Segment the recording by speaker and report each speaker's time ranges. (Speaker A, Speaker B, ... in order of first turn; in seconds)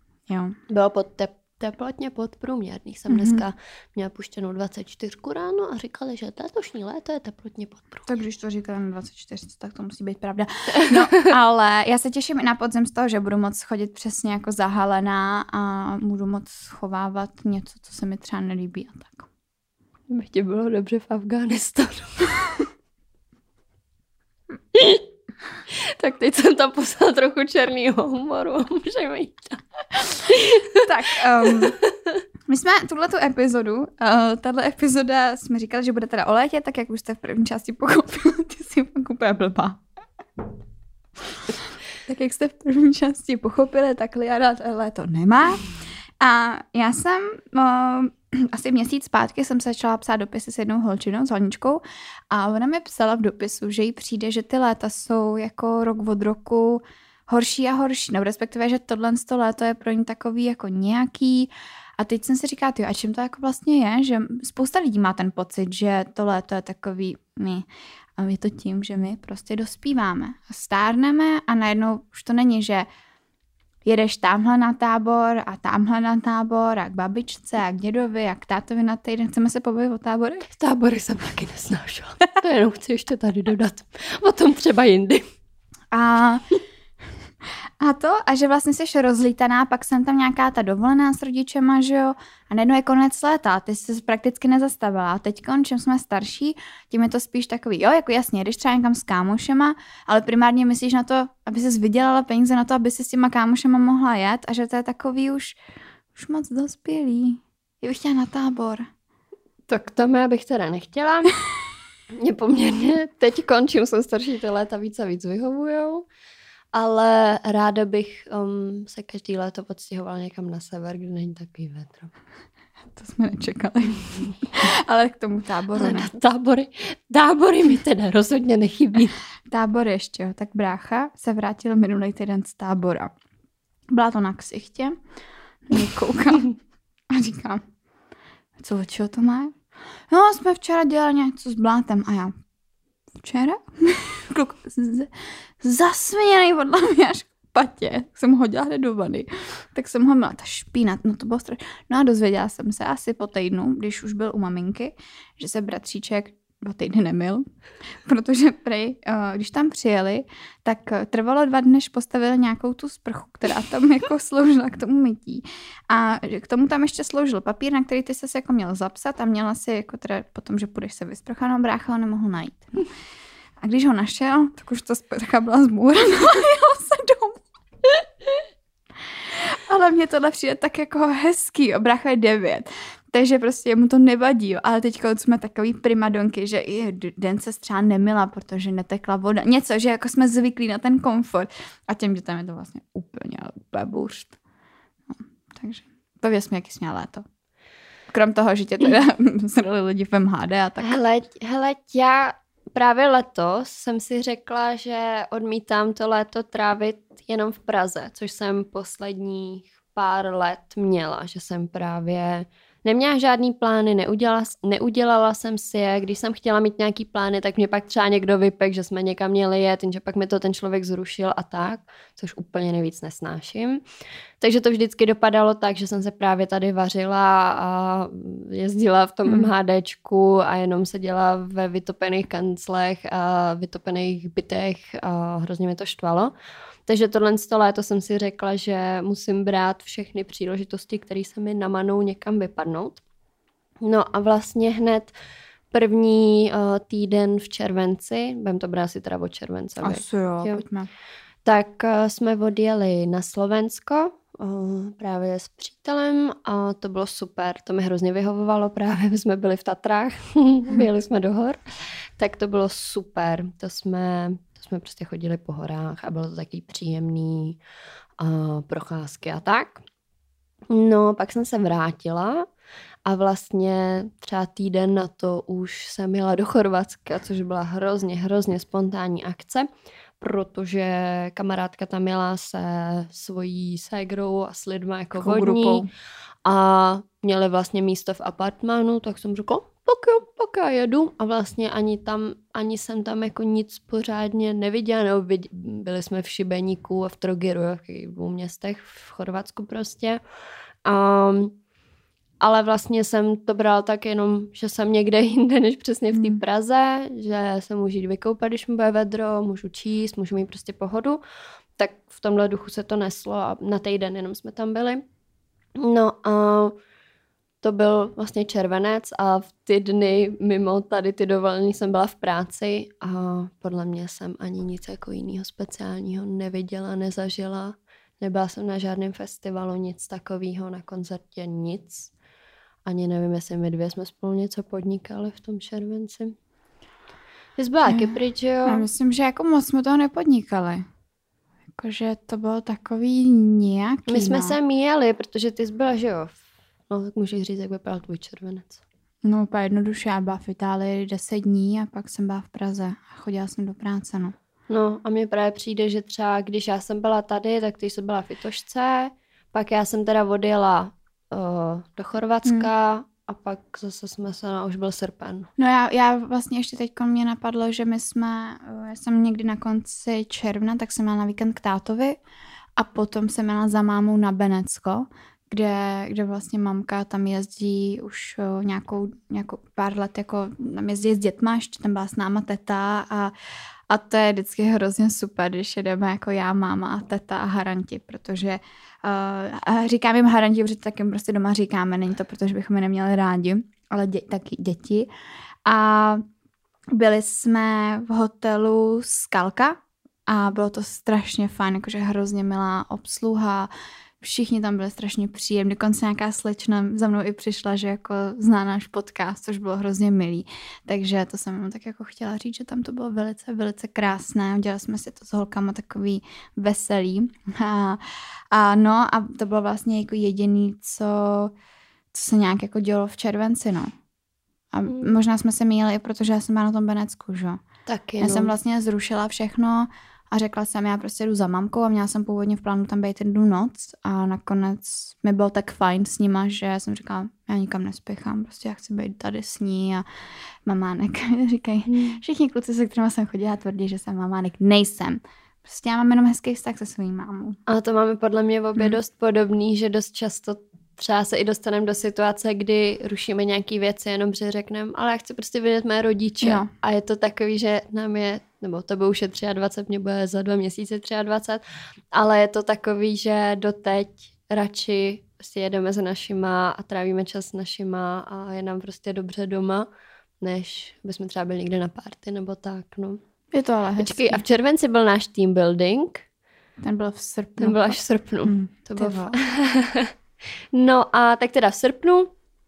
Speaker A: 0.3-0.6, 3.1-3.4, 8.1-19.3, 30.8-31.8, 32.5-39.8, 42.0-72.9, 73.8-80.5, 85.9-86.4, 87.8-105.6, 106.1-108.9, 122.9-126.1, 129.5-133.1, 133.9-134.9, 135.7-136.5, 137.1-137.6, 138.6-139.6, 140.1-142.3, 143.2-157.4, 158.0-172.8, 173.6-178.0, 179.3-194.3, 195.1-197.2, 198.1-201.0, 249.8-250.9, 285.2-285.9, 306.1-306.4, 337.9-340.8, 341.8-344.6, 349.2-354.3, 362.4-362.7, 365.6-372.2, 372.8-383.3, 383.9-395.1, 395.6-396.2, 396.9-403.7, 404.2-421.5, 422.1-423.9, 424.7-427.6, 428.2-440.0, 440.6-447.6, 456.4-456.7, 473.5-474.4, 476.8-479.4
Speaker B: 0.7-8.1, 10.8-11.2, 20.1-22.6, 24.7-25.0, 25.7-30.9, 31.4-31.9, 80.5-85.2, 109.7-111.3, 112.2-116.0, 116.7-122.1, 125.8-129.2, 200.8-223.8, 224.4-236.3, 236.8-243.0, 243.8-245.1, 245.7-250.6, 251.4-261.6, 262.2-267.6, 268.2-269.8, 270.7-272.4, 273.1-279.7, 280.2-285.8, 286.4-300.2, 300.9-301.5, 302.4-311.2, 311.8-315.0, 315.8-316.7, 317.6-332.1, 332.9-336.3, 337.6-338.9, 344.1-348.8, 354.7-365.5, 427.9-428.5, 441.9-442.2, 447.7-461.6, 462.1-469.9, 470.4-473.2, 474.0-476.2, 477.6-480.1, 480.7-482.3